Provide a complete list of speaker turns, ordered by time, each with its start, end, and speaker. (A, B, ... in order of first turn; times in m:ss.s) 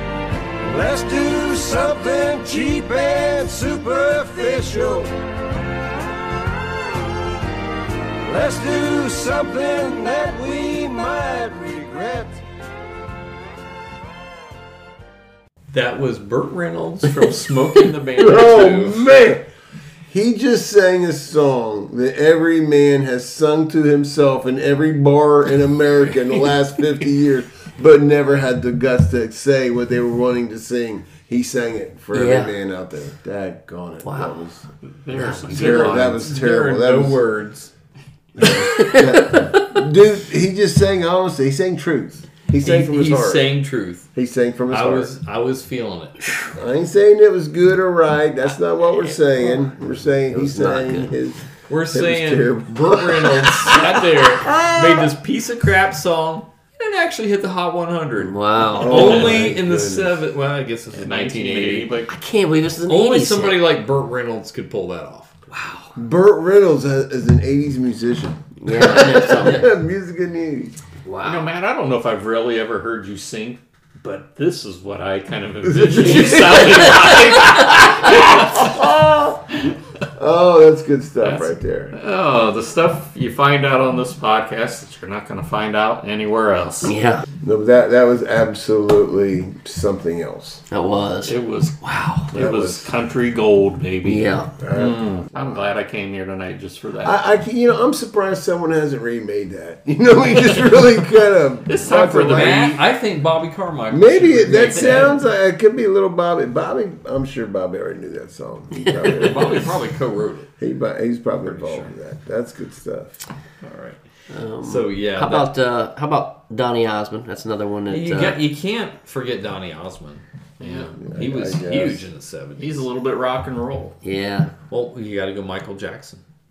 0:00.6-0:05.1 A
0:08.2-0:12.4 A
0:15.7-0:19.0 B
0:18.2-0:19.5 C
0:20.1-0:34.6 C
0:32.1-0:32.5 D
0:34.0-0:34.3 D
0:35.0-0:36.3 E
0:35.1-0:36.0 D
0:35.5-0:37.2 C
0:35.8-0:37.7 B
0:38.4-0:43.5 C
0:38.8-0:39.6 D
0:42.6-0:44.1 B
0:44.1-0:45.1 C
0:44.7-0:46.2 B
0:46.5-0:54.9 C
0:50.3-0:51.1 D
0:51.7-1:01.9 B
0:58.2-0:59.4 D
0:58.7-1:00.2 C
1:00.9-1:02.1 E
1:02.1-1:03.6 D
1:02.9-1:05.4 B
1:05.5-1:05.9 D
1:06.0-1:10.7 C
1:08.6-1:09.7 D
1:11.0-1:11.5 D
1:11.2-1:18.6 E
1:15.7-1:16.8 C
1:18.0-1:19.4 C
1:20.2-1:21.9 C
1:21.2-1:26.9 E
1:26.8-1:27.2 D
1:27.4-1:30.6 C
1:30.7-1:32.3 D
1:31.2-1:37.3 E
1:32.3-1:32.9 C
1:34.0-1:34.5 D
1:34.6-1:35.1 C
1:37.0-1:42.7 C
1:41.6-1:42.8 E
1:42.0-1:45.1 B
1:43.9-1:49.7 C
1:44.5-1:45.1 E
1:49.0-1:50.5 B
1:50.6-1:53.2 C
1:51.4-1:51.9 B
1:53.6-1:54.0 B
1:54.3-1:58.4 D
1:54.6-1:55.5 B
1:57.9-2:02.8 B
2:00.6-2:00.9 E
2:01.0-2:02.0 C
2:02.6-2:03.9 E
2:04.0-2:04.5 D
2:04.7-2:06.2 B